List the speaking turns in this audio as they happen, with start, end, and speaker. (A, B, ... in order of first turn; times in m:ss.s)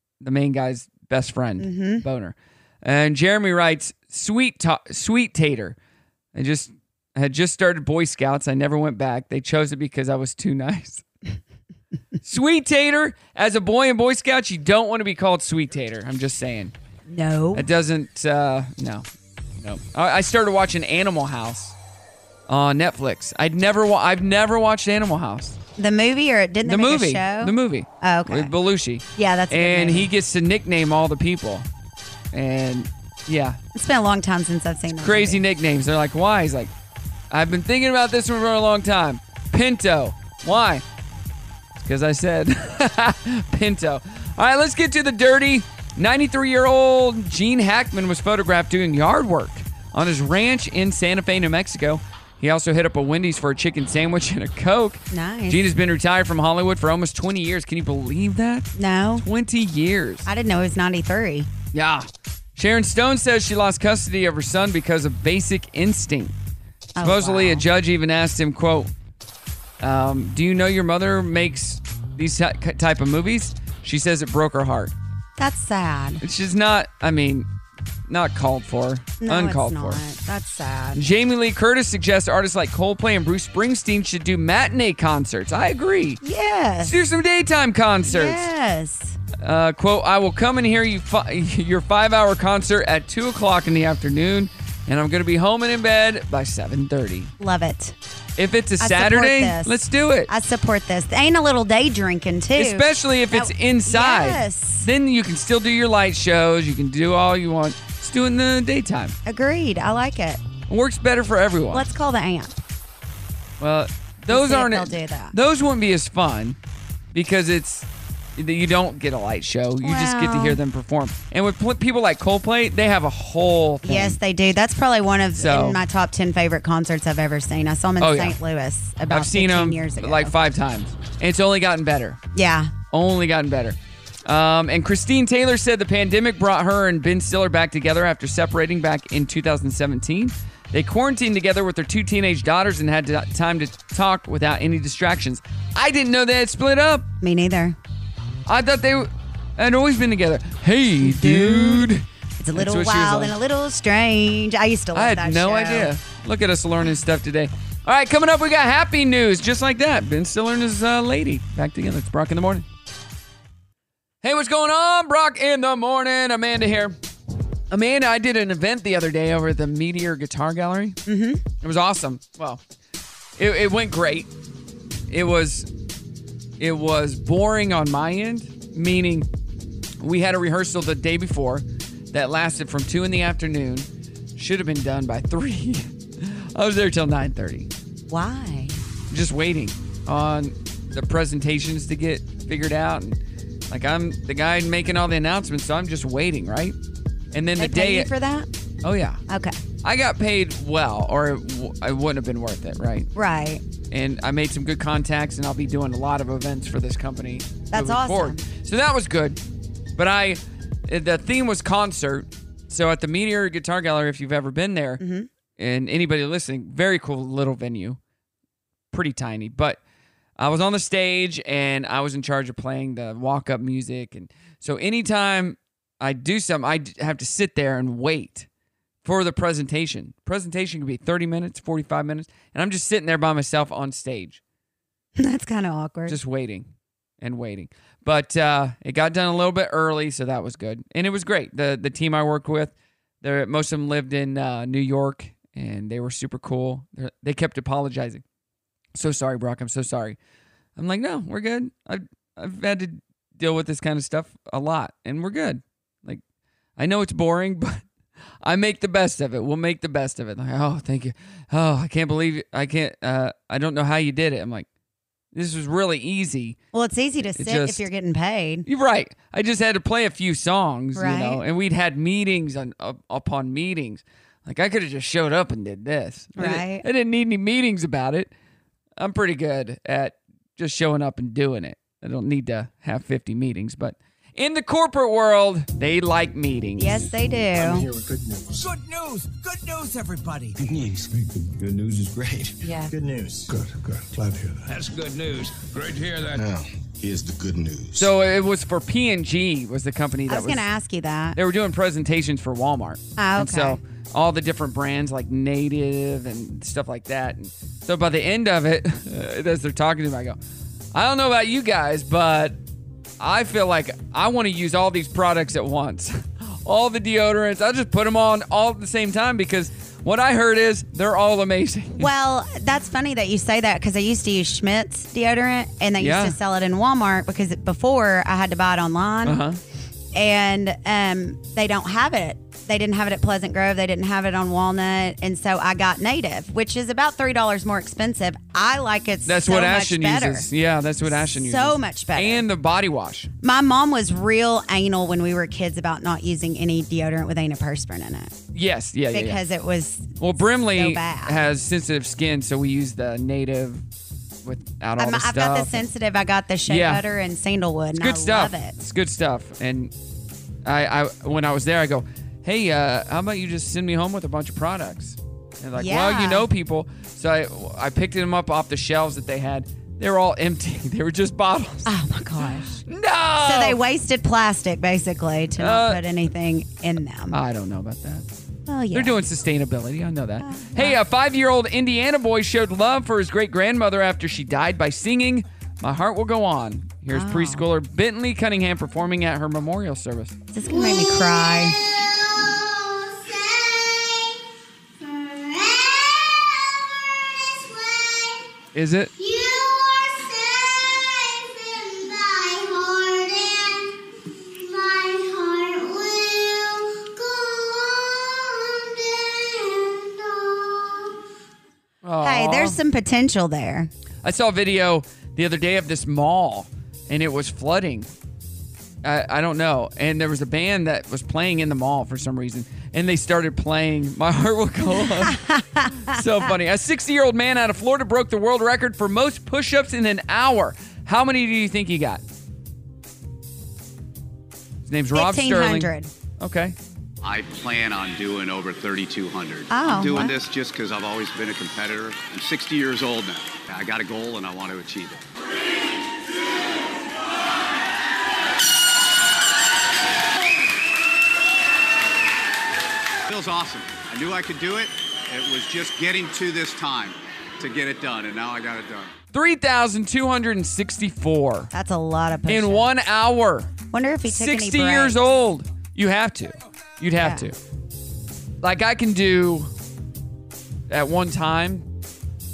0:00.2-0:05.8 A
0:01.6-0:02.0 B
0:06.3-0:11.0 A
0:12.2-0:16.7 A
0:17.1-0:17.7 B
0:17.5-0:19.0 A
0:19.6-0:21.7 A
0:22.5-0:25.6 A
0:25.8-0:28.5 B
0:26.6-0:31.7 A
0:29.2-0:30.1 B
0:32.3-0:33.6 A
0:33.7-0:35.4 B
0:35.0-0:36.7 A
0:37.3-0:40.8 A
0:41.8-0:58.7 A
0:55.1-0:55.7 B
0:58.8-0:59.2 B
0:59.2-1:00.3 A
1:00.2-1:01.5 B
1:01.7-1:06.3 A
1:07.0-1:07.6 B
1:07.0-1:08.9 A
1:09.8-1:14.9 A
1:15.4-1:16.2 B
1:16.2-1:17.5 A
1:18.1-1:20.0 A
1:19.2-1:21.0 B
1:20.9-1:26.2 A
1:26.2-1:27.0 B
1:26.8-1:28.4 A
1:28.1-1:29.2 B
1:29.4-1:37.3 A
1:37.4-1:38.0 B
1:38.4-1:40.3 A
1:38.8-1:39.7 B
1:40.3-1:44.9 B
1:42.6-1:49.2 A
1:49.2-1:50.4 B
1:50.7-1:51.8 A
1:51.7-1:52.5 B
1:53.6-1:56.6 A
1:54.3-1:55.4 B
1:57.1-2:04.2 A
1:59.8-2:00.6 B
2:03.8-2:10.3 B
2:05.3-2:05.8 A
2:08.0-2:08.4 A
2:09.1-2:12.2 A
2:12.3-2:12.7 B
2:12.9-2:27.0 A
2:27.2-2:27.8 B
2:28.5-2:33.3 A
2:31.0-2:35.9 B
2:34.9-2:42.6 A
2:44.2-2:47.0 A
2:47.7-2:51.0 A
2:51.1-2:51.4 B
2:51.6-2:52.6 A
2:53.4-2:54.3 A
2:55.1-2:55.7 A
2:56.6-2:59.3 A
3:00.0-3:07.7 A
3:08.1-3:08.8 B
3:09.1-3:13.2 A
3:13.7-3:16.8 A
3:17.3-3:18.1 A
3:17.6-3:18.5 B
3:18.8-3:19.2 A
3:19.3-3:19.6 B
3:19.8-3:23.1 A
3:23.1-3:23.6 B
3:23.9-3:29.4 A
3:27.7-3:28.4 B
3:30.0-3:35.0 A
3:35.0-3:35.3 B
3:35.6-3:38.0 A
3:38.9-3:39.8 A
3:40.4-3:48.5 A
3:49.0-3:54.4 A
3:55.2-3:56.2 B
3:56.1-3:56.7 A
3:57.2-4:08.2 A
4:08.9-4:10.2 A
4:10.8-4:16.2 A
4:16.8-4:17.8 A
4:18.4-4:24.7 A
4:25.3-4:26.6 A
4:26.7-4:28.6 B
4:27.2-4:27.8 A
4:28.6-4:38.3 A
4:31.0-4:31.4 B
4:36.4-4:36.8 B
4:39.0-4:47.1 A
4:46.8-4:47.9 B
4:47.6-4:48.1 C
4:48.5-4:50.6 D
4:50.6-4:52.5 C
4:53.5-4:54.5 C
4:54.7-4:56.4 D
4:56.4-4:58.1 C
4:58.0-5:00.7 A
5:00.3-5:01.4 B
5:01.3-5:10.4 A
5:03.2-5:03.8 B
5:10.9-5:12.6 A
5:13.2-5:22.1 A
5:22.0-5:29.4 B
5:26.0-5:26.4 A
5:29.2-5:29.6 A
5:30.1-5:40.5 B
5:39.2-5:43.3 A
5:41.0-5:42.4 B
5:43.4-5:48.3 B
5:48.5-5:49.4 A
5:49.1-5:51.4 B
5:50.2-5:53.8 A
5:54.4-5:55.8 A
5:55.0-5:58.8 B
5:56.7-5:57.0 A
5:58.0-5:59.9 A
6:00.6-6:11.9 A
6:05.8-6:06.5 B
6:11.9-6:12.8 B
6:12.8-6:13.8 A
6:13.4-6:17.4 B
6:15.6-6:16.0 A
6:17.3-6:18.2 A
6:18.7-6:19.1 B
6:18.9-6:30.4 A
6:20.4-6:21.0 B
6:27.1-6:27.6 B
6:30.5-6:31.9 B
6:33.3-6:33.8 B
6:35.0-6:36.4 B
6:38.7-6:39.1 A
6:39.2-6:43.8 B
6:44.6-6:48.3 B
6:52.0-6:52.8 A
6:52.2-6:53.9 B
6:54.2-6:58.1 A
6:59.0-7:05.4 A
7:04.9-7:06.2 B
7:06.1-7:12.2 A
7:14.8-7:16.8 A
7:15.1-7:16.1 B
7:17.2-7:25.2 E
7:19.7-7:20.3 B
7:33.3-7:39.1 E
7:39.3-7:41.7 A
7:41.7-7:42.9 B
7:42.5-7:43.7 A
7:43.9-7:45.2 B
7:44.2-7:47.6 A
7:47.2-7:47.4 B
7:48.6-7:49.7 A
7:50.9-7:51.8 A